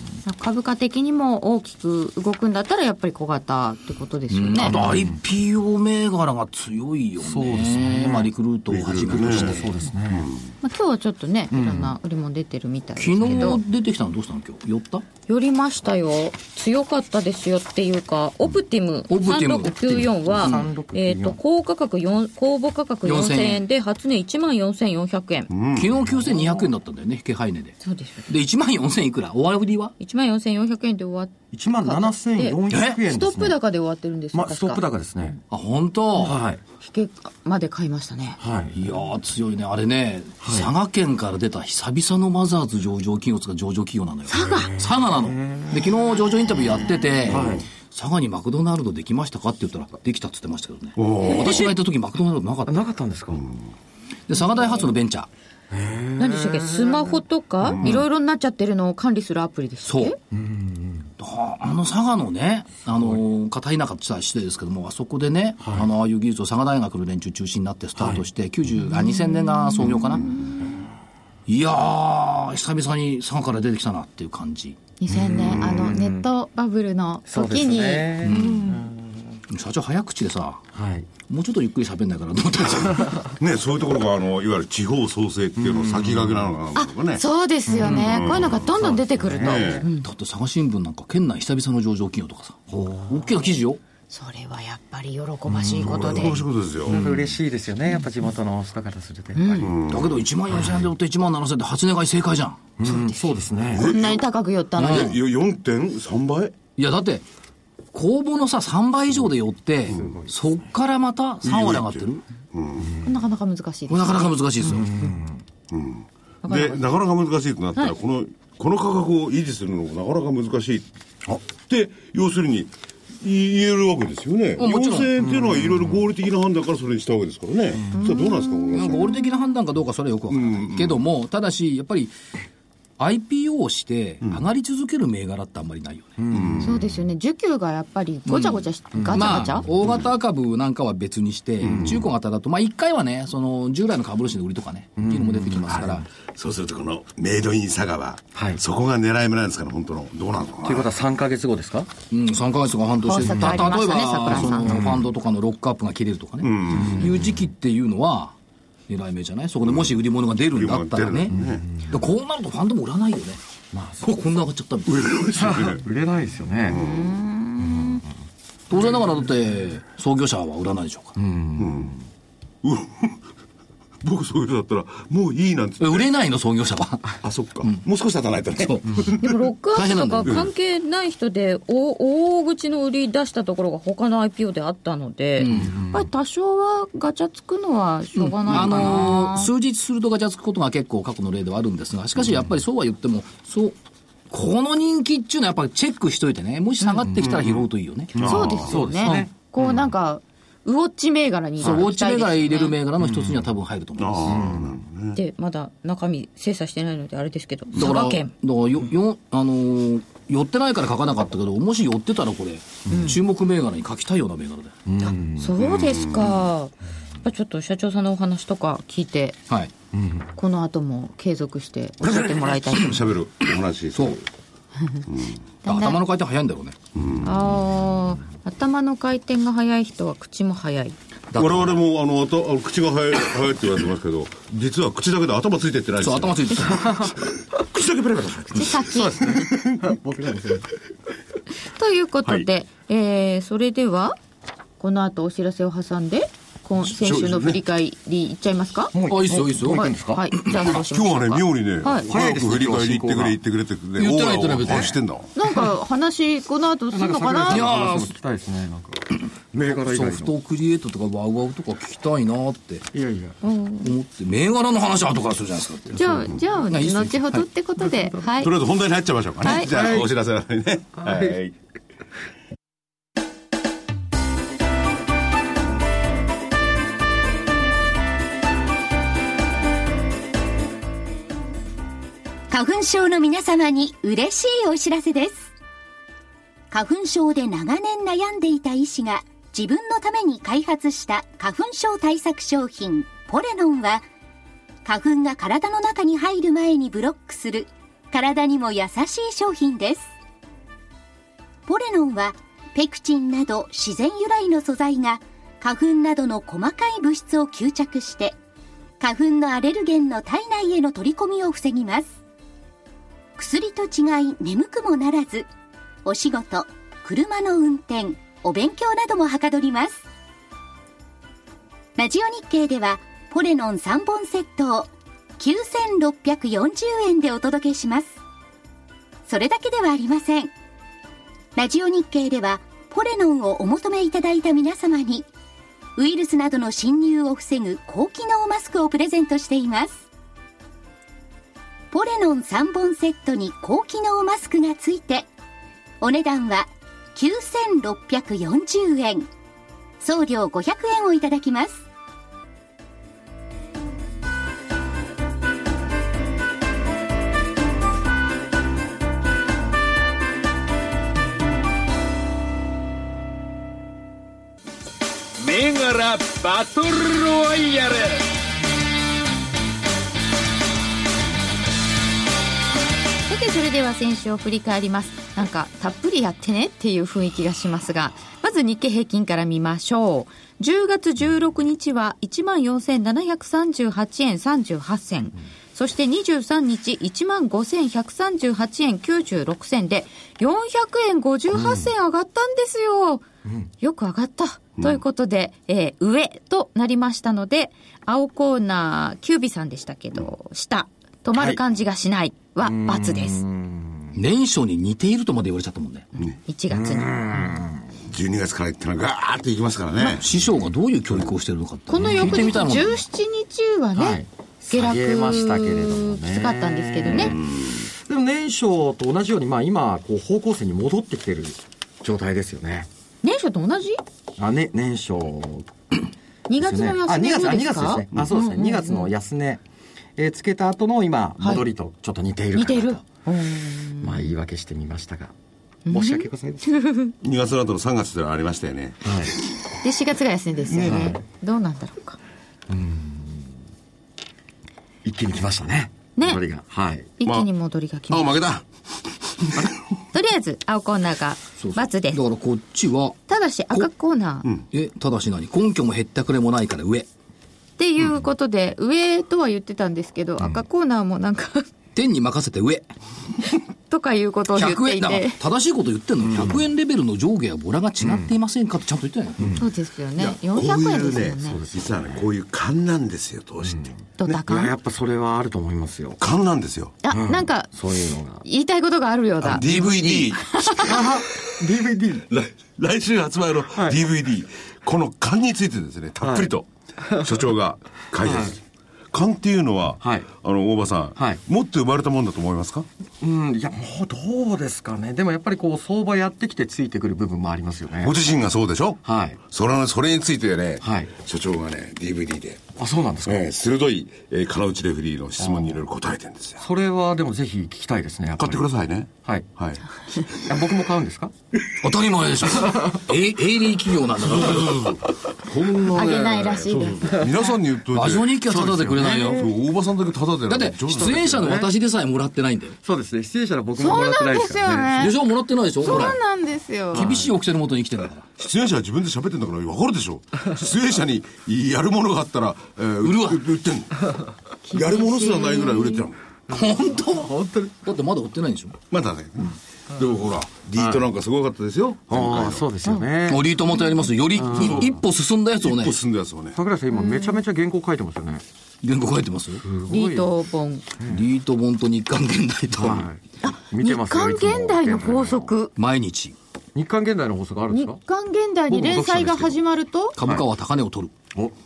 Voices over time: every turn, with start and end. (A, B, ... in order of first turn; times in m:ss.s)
0:00.2-0:04.8 A
0:04.3-0:09.7 B
0:04.7-0:05.2 C
0:07.2-0:08.3 C
0:08.7-0:10.4 D
0:09.1-0:10.3 C
0:10.6-0:13.6 A
0:11.5-0:11.9 C
0:13.0-0:15.1 B
0:15.3-0:25.5 A
0:19.1-0:20.7 B
0:20.3-0:21.4 C
0:23.0-0:23.6 B
0:25.5-0:26.0 D
0:25.8-0:27.8 B
0:26.1-0:26.7 C
0:27.8-0:28.3 A
0:28.3-0:29.9 B
0:30.0-0:34.8 A
0:31.5-0:33.6 C
0:32.7-0:33.0 B
0:34.3-0:35.4 C
0:35.5-0:36.4 B
0:36.2-0:36.6 C
0:36.8-0:38.4 A
0:38.4-0:38.8 C
0:38.7-0:52.9 B
0:40.4-0:40.7 C
0:44.3-0:44.7 A
0:45.1-0:45.8 C
0:47.3-0:47.7 C
0:47.3-0:47.6 D
0:51.0-0:51.7 D
0:52.7-0:53.5 C
0:54.3-0:55.3 B
0:55.7-0:57.2 C
0:56.2-1:00.2 A
0:57.6-0:57.9 D
0:59.8-1:00.2 B
1:00.3-1:01.1 C
1:01.2-1:10.3 B
1:05.6-1:05.9 C
1:08.9-1:10.6 A
1:11.5-1:14.8 B
1:15.0-1:18.9 A
1:15.1-1:16.3 C
1:15.3-1:15.9 D
1:17.3-1:19.2 C
1:18.2-1:18.7 B
1:19.5-1:20.7 B
1:20.7-1:21.1 C
1:21.2-1:23.1 B
1:23.3-1:27.2 D
1:25.6-1:26.5 C
1:26.8-1:30.1 A
1:27.7-1:29.9 C
1:27.8-1:29.9 D
1:30.0-1:33.8 B
1:32.7-1:33.3 C
1:34.1-1:36.4 A
1:35.5-1:39.7 C
1:35.8-1:37.0 D
1:39.4-1:39.7 A
1:39.6-1:40.2 D
1:39.9-1:42.7 B
1:42.8-1:43.9 C
1:42.8-1:43.2 A
1:43.7-1:44.2 D
1:43.7-1:45.2 A
1:44.8-1:45.1 B
1:44.8-1:46.6 D
1:46.8-1:47.2 B
1:47.9-1:52.2 B
1:49.9-1:50.2 D
1:49.9-1:50.3 C
1:51.4-1:53.0 D
1:53.0-1:55.1 A
1:53.9-1:54.9 B
1:54.7-1:55.4 C
1:55.7-2:00.9 D
1:56.4-1:56.9 A
2:01.5-2:09.2 D
2:04.6-2:05.1 B
2:05.2-2:06.0 C
2:07.9-2:09.4 A
2:08.7-2:12.1 B
2:10.3-2:11.0 D
2:13.0-2:16.3 B
2:16.2-2:16.6 C
2:16.3-2:16.9 D
2:16.6-2:19.7 A
2:18.3-2:26.1 B
2:19.0-2:19.7 C
2:21.6-2:22.0 D
2:25.0-2:26.0 C
2:26.3-2:30.9 D
2:28.4-2:28.6 C
2:30.6-2:31.9 C
2:32.1-2:38.4 B
2:33.0-2:34.8 A
2:33.3-2:33.7 C
2:34.6-2:35.0 C
2:36.4-2:37.2 D
2:36.7-2:37.2 C
2:38.9-2:43.4 B
2:39.7-2:39.9 D
2:40.5-2:41.6 D
2:41.3-2:41.9 C
2:43.7-2:44.2 C
2:44.0-2:45.1 B
2:44.9-2:45.8 D
2:45.3-2:46.8 C
2:46.7-2:47.2 D
2:46.7-2:48.0 A
2:47.6-2:48.0 C
2:48.7-2:51.1 B
2:51.2-2:52.0 C
2:51.6-2:51.9 D
2:52.6-2:53.2 D
2:54.0-2:56.0 D
2:55.8-2:57.8 B
2:57.2-2:59.3 D
2:58.6-2:59.1 B
2:59.1-3:09.5 A
2:59.7-3:00.5 B
3:05.4-3:05.8 B
3:05.5-3:06.0 C
3:08.2-3:13.8 B
3:14.3-3:19.3 B
3:16.8-3:17.1 A
3:17.2-3:18.8 D
3:18.2-3:19.3 C
3:18.2-3:22.8 A
3:21.6-3:24.6 B
3:24.0-3:25.2 D
3:24.3-3:24.6 C
3:25.2-3:28.3 A
3:27.8-3:35.1 B
3:32.9-3:33.2 A
3:34.9-3:35.5 C
3:35.4-3:36.7 A
3:35.6-3:36.4 D
3:37.2-3:39.4 A
3:39.9-3:40.3 C
3:40.4-3:43.0 A
3:42.0-3:44.2 D
3:45.1-3:45.4 D
3:45.6-3:46.0 A
3:45.6-3:46.8 B
3:47.0-3:47.4 D
3:47.2-3:51.0 A
3:51.3-3:51.8 B
3:51.4-3:57.0 D
3:56.0-3:57.1 B
3:57.6-3:58.8 D
3:58.6-3:59.4 A
3:58.9-4:00.7 C
3:59.4-3:59.8 D
4:01.7-4:04.2 A
4:04.8-4:08.9 A
4:06.8-4:07.6 D
4:08.9-4:10.2 C
4:09.1-4:10.5 B
4:09.6-4:12.1 A
4:10.6-4:15.3 D
4:12.0-4:13.4 C
4:14.0-4:15.0 B
4:15.4-4:17.7 A
4:16.9-4:20.3 C
4:17.5-4:18.1 B
4:19.6-4:22.9 B
4:22.9-4:23.4 C
4:23.4-4:23.9 A
4:23.8-4:27.4 B
4:25.9-4:28.5 A
4:27.9-4:28.2 C
4:28.4-4:31.5 D
4:29.4-4:30.0 A
4:29.5-4:30.1 C
4:31.0-4:31.4 C
4:42.5-4:45.5 E
4:46.7-4:54.1 E
4:54.8-5:00.1 E
5:01.7-5:08.4 E
5:09.0-5:12.1 E
5:13.4-5:15.5 E
5:16.0-5:20.0 E
5:22.0-5:28.2 E
5:29.3-5:30.5 E
5:31.6-5:35.3 E
5:36.0-5:40.0 E
5:41.9-5:45.3 E
5:46.0-5:49.3 E
5:50.0-5:51.8 E
6:05.4-6:08.2 F
6:13.3-6:33.2 A
6:33.8-6:43.4 A
6:42.6-6:44.2 C
6:44.2-6:46.1 B
6:46.5-6:47.6 A
6:46.7-6:47.8 C
6:48.0-6:50.3 D
6:50.0-6:53.0 B
6:51.9-6:57.4 A
6:54.0-6:57.5 C
6:57.1-6:57.9 D
6:58.0-7:02.9 C
7:03.2-7:04.0 A
7:04.4-7:05.7 C
7:06.5-7:09.1 A
7:06.6-7:09.6 C
7:10.2-7:13.0 C
7:12.6-7:14.3 A
7:14.0-7:15.3 C
7:15.9-7:17.1 A
7:15.9-7:16.7 C
7:17.2-7:19.1 D
7:19.0-7:19.4 C
7:19.8-7:22.2 A
7:20.7-7:21.1 D
7:20.8-7:21.2 C
7:22.7-7:23.5 C
7:25.0-7:27.1 C
7:27.2-7:28.4 A
7:28.1-7:28.7 D
7:29.4-7:29.7 D
7:30.1-7:32.2 A
7:31.6-7:33.2 B
7:33.3-7:34.5 A
7:34.7-7:37.1 B
7:37.8-7:41.7 A
7:42.0-7:42.9 B
7:43.9-7:45.4 A
7:44.6-7:49.6 B
7:46.3-7:46.6 C
7:48.0-7:48.3 C
7:49.6-7:51.6 A
7:50.2-7:54.4 D
7:51.4-7:52.3 C
7:53.6-7:53.9 C
7:54.2-7:54.7 A
7:54.5-7:56.2 C
7:56.2-7:57.0 D
7:57.0-7:57.7 A
7:57.1-7:58.4 C
7:58.4-8:01.0 A
7:59.4-8:01.6 D
8:00.8-8:02.3 C
8:02.3-8:06.7 D
8:06.2-8:06.5 C
8:07.0-8:07.4 C
8:07.2-8:08.6 D
8:08.2-8:08.6 C
8:09.1-8:12.9 D
8:10.0-8:10.3 C
8:11.2-8:11.4 C
8:13.2-8:18.2 C
8:18.0-8:22.6 D
8:19.0-8:19.4 C
8:20.8-8:21.1 C
8:22.8-8:23.4 C
8:23.2-8:26.6 D
8:25.4-8:25.8 C
8:26.6-8:28.7 C
8:28.4-8:29.8 D
8:29.2-8:29.5 C
8:30.3-8:31.3 C
8:31.8-8:35.0 B
8:34.3-8:41.6 D
8:35.9-8:37.5 A
8:37.9-8:39.5 B
8:38.5-8:39.5 C
8:40.5-8:42.8 B
8:40.9-8:41.7 C
8:42.8-8:45.1 C
8:43.8-8:45.2 A
8:45.0-8:46.2 B
8:45.8-8:47.2 A
8:46.9-8:48.3 B
8:46.9-8:47.3 C
8:48.4-8:54.1 D
8:53.0-8:53.5 B
8:54.6-8:56.1 A
8:54.7-8:56.2 D
8:56.5-8:58.8 B
8:56.5-8:57.7 C
8:58.9-9:02.6 D
9:00.8-9:01.1 C
9:02.1-9:03.5 C
9:03.3-9:06.0 B
9:04.4-9:05.0 C
9:05.6-9:06.6 D
9:06.6-9:08.4 C
9:06.9-9:07.4 A
9:08.8-9:09.6 B
9:09.6-9:10.3 C
9:09.9-9:10.9 A
9:11.0-9:11.2 C
9:11.1-9:13.1 B
9:12.8-9:13.2 C
9:13.4-9:15.7 A
9:13.7-9:15.5 C
9:15.8-9:16.4 B
9:16.8-9:18.0 C
9:17.7-9:20.2 A
9:18.7-9:19.4 B
9:18.8-9:19.5 C
9:20.2-9:21.1 B